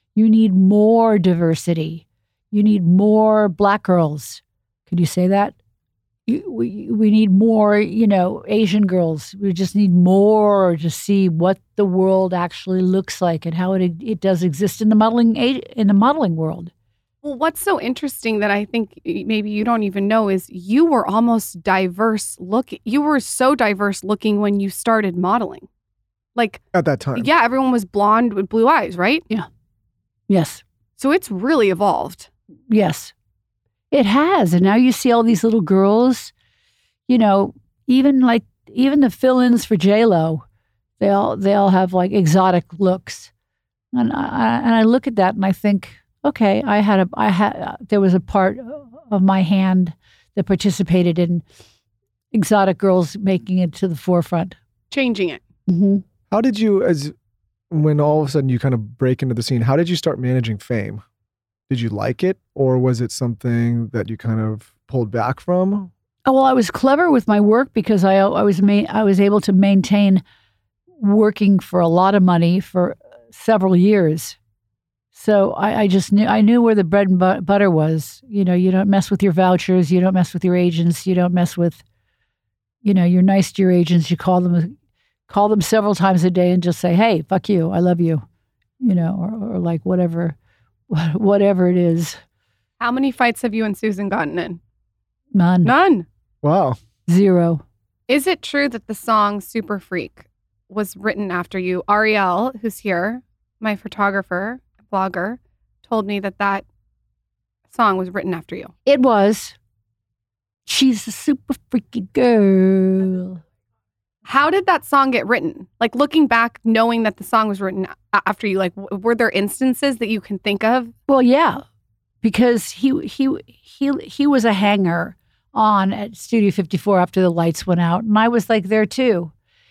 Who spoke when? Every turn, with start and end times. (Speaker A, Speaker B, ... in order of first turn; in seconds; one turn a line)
Speaker A: 0.1-5.5
Speaker A: 6.2-16.7
Speaker B: 17.2-25.7
Speaker B: 26.4-26.6
Speaker C: 26.7-27.3
Speaker B: 27.1-29.2
Speaker A: 30.3-30.6
Speaker B: 31.0-32.3
Speaker A: 32.7-33.1
Speaker A: 33.9-36.3
Speaker A: 37.1-40.4
Speaker A: 41.0-43.3
Speaker A: 43.9-51.4
Speaker A: 52.3-54.6
Speaker B: 54.9-55.4
Speaker A: 55.7-56.0
Speaker C: 56.3-57.1
Speaker C: 57.7-61.0
Speaker C: 61.7-65.9
Speaker A: 66.2-70.2
Speaker A: 71.0-74.4
Speaker A: 75.1-81.8
Speaker A: 82.8-84.7
Speaker A: 85.3-88.2
Speaker A: 88.8-90.3
Speaker A: 90.9-92.2
Speaker B: 92.8-94.6
Speaker A: 95.3-95.7
Speaker B: 95.6-96.0
Speaker C: 96.4-96.8
Speaker A: 97.1-97.6
Speaker B: 98.1-106.6
Speaker B: 107.7-108.7
Speaker A: 108.8-109.5
Speaker A: 110.7-113.4
Speaker B: 114.2-120.9
Speaker A: 121.1-121.6
Speaker A: 122.2-129.3